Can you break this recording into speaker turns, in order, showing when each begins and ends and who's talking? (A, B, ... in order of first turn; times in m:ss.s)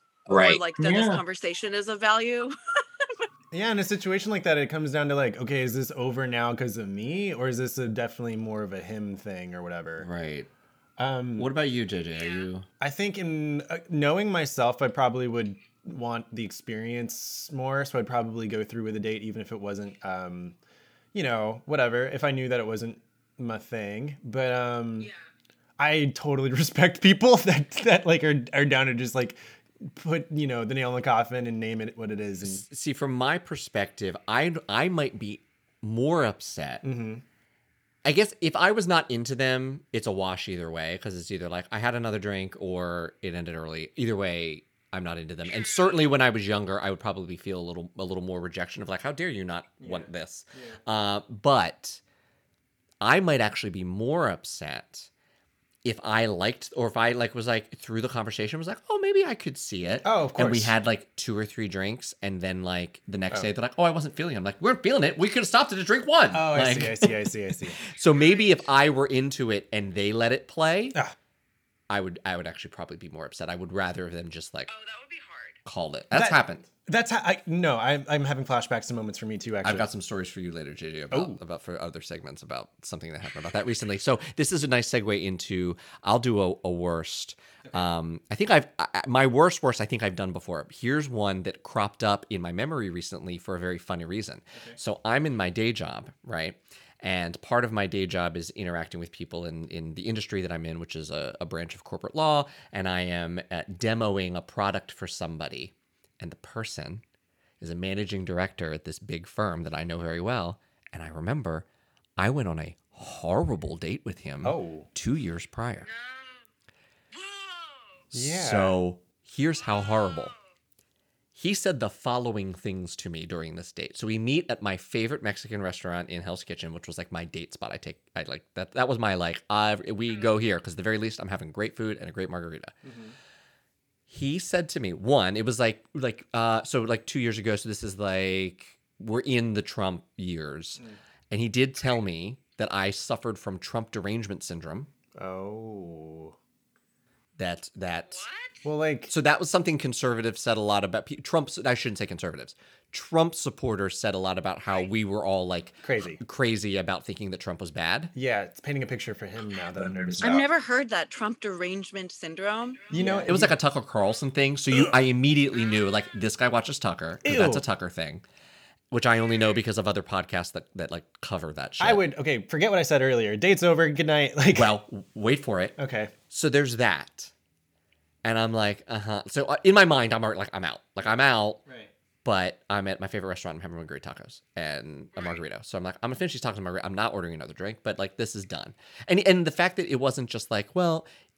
0:00.3-0:03.3 A
0:03.5-0:10.1 B
0:10.0-0:10.5 C
0:11.0-0:11.5 B
0:11.4-0:12.6 C
0:12.8-0:20.6 B
0:21.1-0:25.1 B
0:25.8-0:32.6 B
0:32.4-0:36.8 C
0:36.8-0:37.2 B
0:38.0-0:52.0 C
0:49.8-0:50.8 B
0:53.0-0:55.1 C
0:55.8-1:07.1 C
1:00.0-1:00.7 B
1:06.3-1:07.8 B
1:07.9-1:11.0 C
1:11.9-1:14.7 C
1:14.7-1:15.6 A
1:15.6-1:16.7 C
1:16.1-1:19.9 B
1:19.6-1:47.0 C
1:21.1-1:21.4 B
1:47.6-1:51.6 C
1:52.2-1:55.9 C
1:54.4-1:54.9 B
1:56.0-1:56.4 A
1:57.1-1:57.8 A
1:58.1-2:00.3 C
1:58.1-1:58.8 B
2:01.3-2:12.7 C
2:12.8-2:13.2 B
2:14.1-2:24.9 C
2:25.2-2:26.3 B
2:27.4-2:28.2 C
2:28.2-2:28.5 A
2:28.6-2:29.1 B
2:29.1-2:38.1 C
2:35.8-2:36.2 B
2:38.1-2:40.4 B
2:40.2-2:42.9 A
2:42.9-2:43.6 B
2:42.9-2:48.2 C
2:44.7-2:45.0 B
2:47.2-2:47.6 B
2:48.9-2:52.0 C
2:51.8-2:54.7 B
2:54.5-2:55.8 C
2:55.8-2:56.1 B
2:56.3-2:57.3 C
2:58.2-3:01.6 C
3:01.6-3:01.9 B
3:02.2-3:11.1 C